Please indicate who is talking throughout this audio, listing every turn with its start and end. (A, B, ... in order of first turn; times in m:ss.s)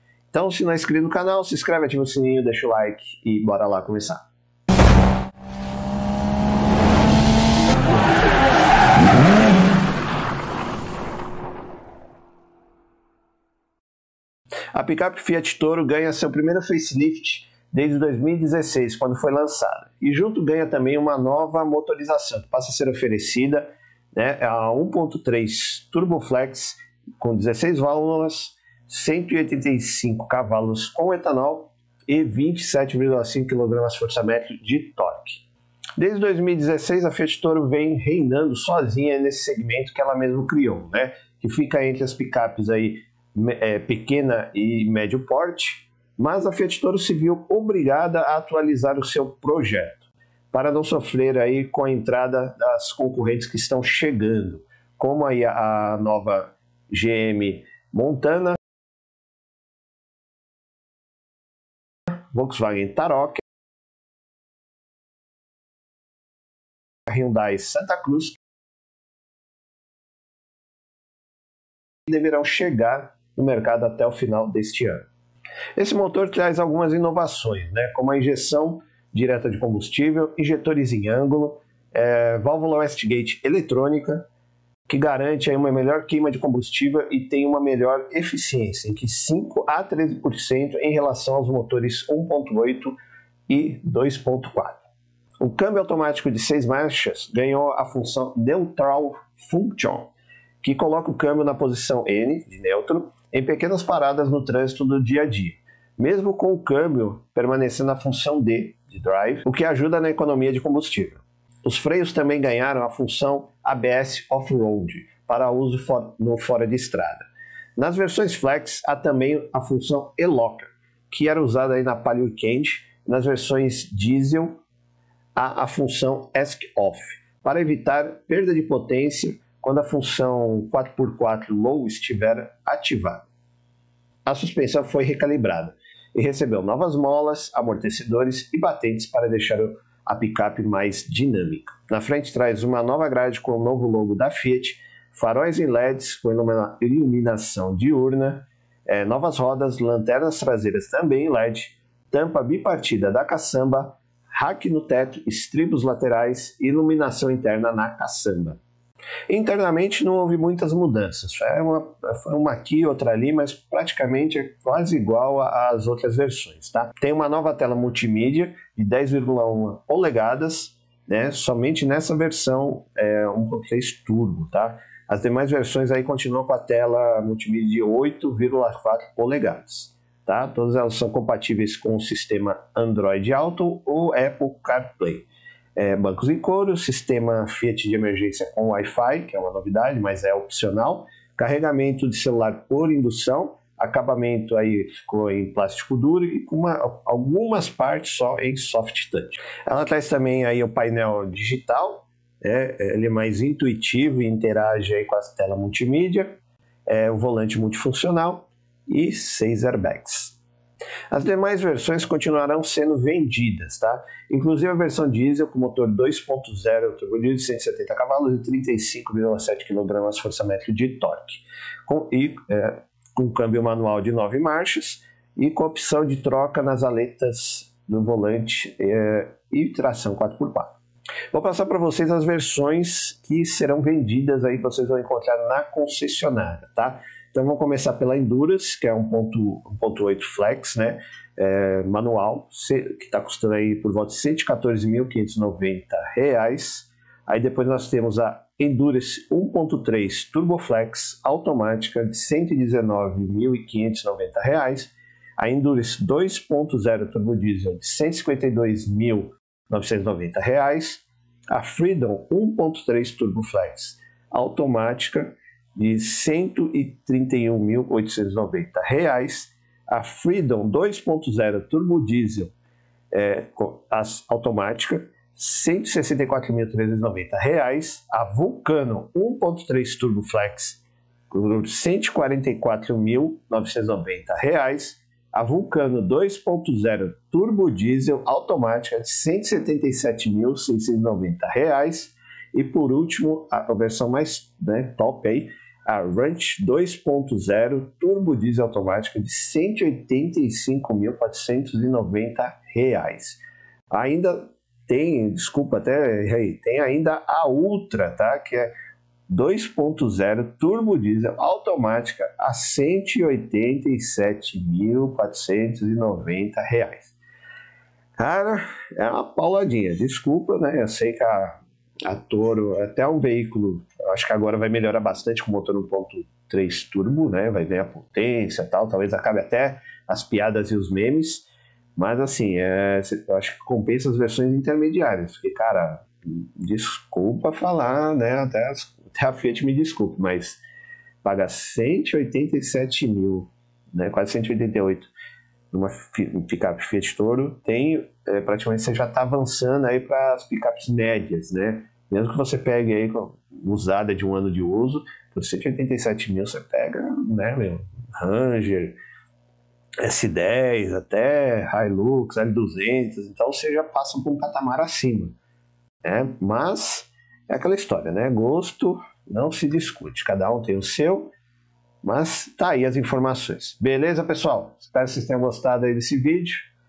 0:00.3-0:04.2 A
0:14.7-0:35.4 A
0:36.0-0:58.6 A
1:02.1-1:03.4 A
1:07.1-1:08.4 A
1:12.1-1:15.1 A
1:15.8-1:24.2 A
1:24.9-1:32.9 A
1:33.5-1:34.8 A
1:35.4-1:57.2 A
1:57.8-2:04.6 A
2:05.3-2:13.2 A
2:14.2-2:38.6 A
2:39.3-3:26.3 A
3:26.9-3:30.4 A
3:31.1-3:50.7 A
3:51.3-4:32.5 A
4:33.1-5:08.7 A
5:09.3-5:17.1 A
5:18.2-5:40.6 A
5:41.2-5:45.1 A
5:45.7-5:59.0 A
6:00.0-6:05.4 A
6:06.0-6:11.3 A
6:12.0-6:16.7 A